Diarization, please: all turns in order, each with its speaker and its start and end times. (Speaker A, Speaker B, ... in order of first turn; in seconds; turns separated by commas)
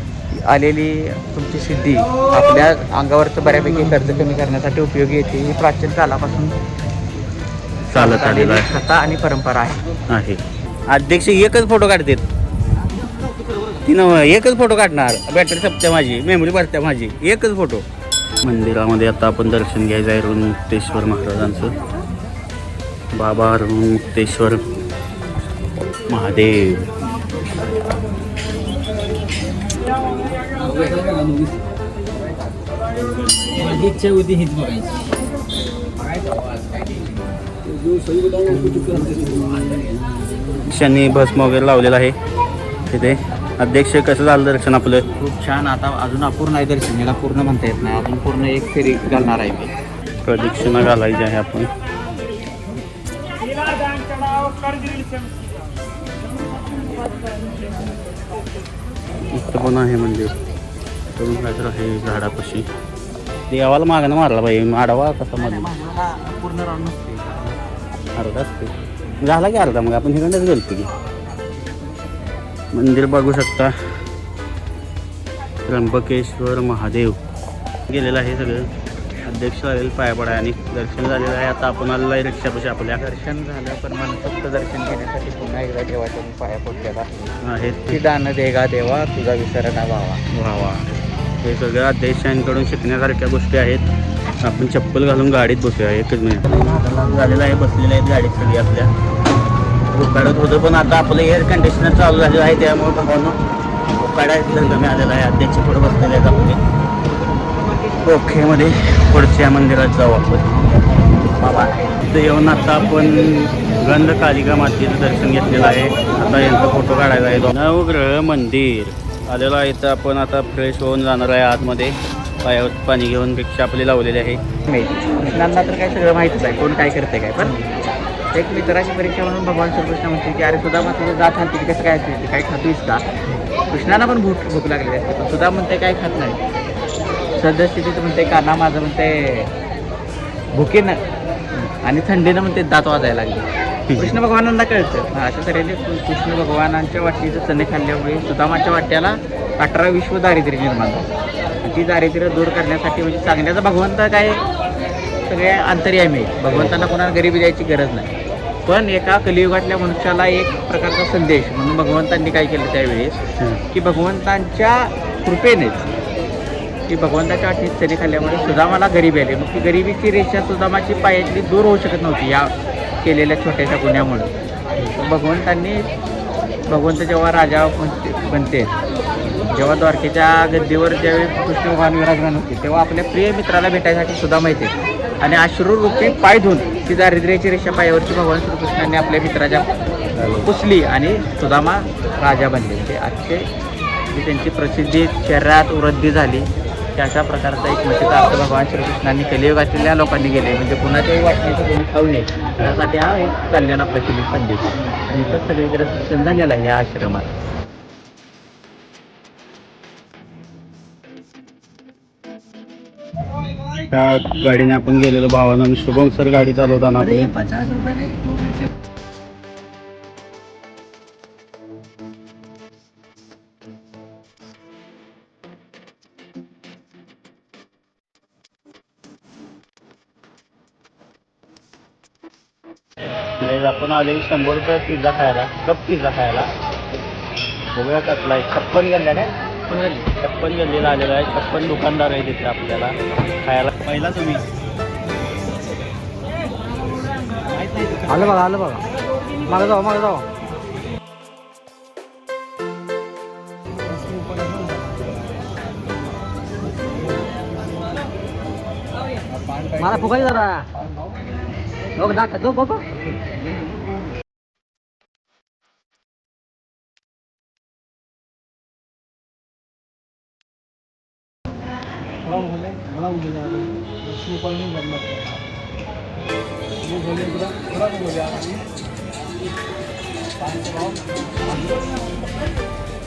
Speaker A: 0.3-6.5, Speaker A: 7.9-9.9, Speaker B: 7.9-8.7, Speaker B: 10.1-12.2, Speaker C: 13.0-13.8, Speaker B: 13.8-17.8, Speaker B: 18.4-21.7, Speaker B: 23.1-24.6, Speaker B: 26.1-26.9, Speaker C: 30.5-31.5, Speaker C: 33.5-34.9, Speaker A: 36.0-37.2, Speaker C: 38.5-39.8, Speaker B: 40.6-42.1, Speaker B: 42.9-45.0, Speaker A: 45.2-49.7, Speaker B: 50.2-51.7, Speaker B: 59.3-60.4, Speaker B: 61.1-62.7, Speaker B: 63.5-65.7, Speaker A: 65.4-67.6, Speaker B: 68.2-70.9, Speaker B: 72.7-73.7, Speaker B: 75.6-77.2, Speaker B: 77.9-78.7, Speaker B: 79.2-83.0, Speaker A: 83.0-87.3, Speaker B: 87.4-88.0, Speaker A: 87.9-90.2, Speaker B: 90.3-93.8, Speaker B: 94.4-98.9, Speaker B: 99.9-103.4, Speaker B: 104.0-106.6, Speaker B: 108.0-110.5, Speaker B: 111.4-124.4, Speaker A: 124.6-127.6, Speaker A: 128.3-133.0, Speaker A: 133.7-136.4, Speaker A: 137.4-139.5, Speaker A: 140.5-141.0, Speaker A: 141.7-151.1, Speaker B: 143.9-144.2, Speaker A: 151.6-154.4, Speaker A: 155.3-158.1, Speaker B: 156.5-156.8, Speaker A: 158.7-165.9, Speaker A: 166.9-172.5, Speaker A: 173.0-174.3, Speaker A: 174.9-175.8, Speaker A: 176.7-178.7, Speaker A: 179.4-189.7, Speaker B: 190.1-190.5, Speaker A: 190.4-193.5, Speaker A: 194.1-207.3, Speaker B: 213.8-217.4, Speaker C: 217.5-217.9, Speaker B: 233.4-236.5, Speaker B: 237.7-244.4, Speaker B: 247.5-248.3, Speaker C: 248.1-248.8, Speaker C: 249.4-250.2, Speaker C: 259.7-260.7, Speaker C: 261.9-262.9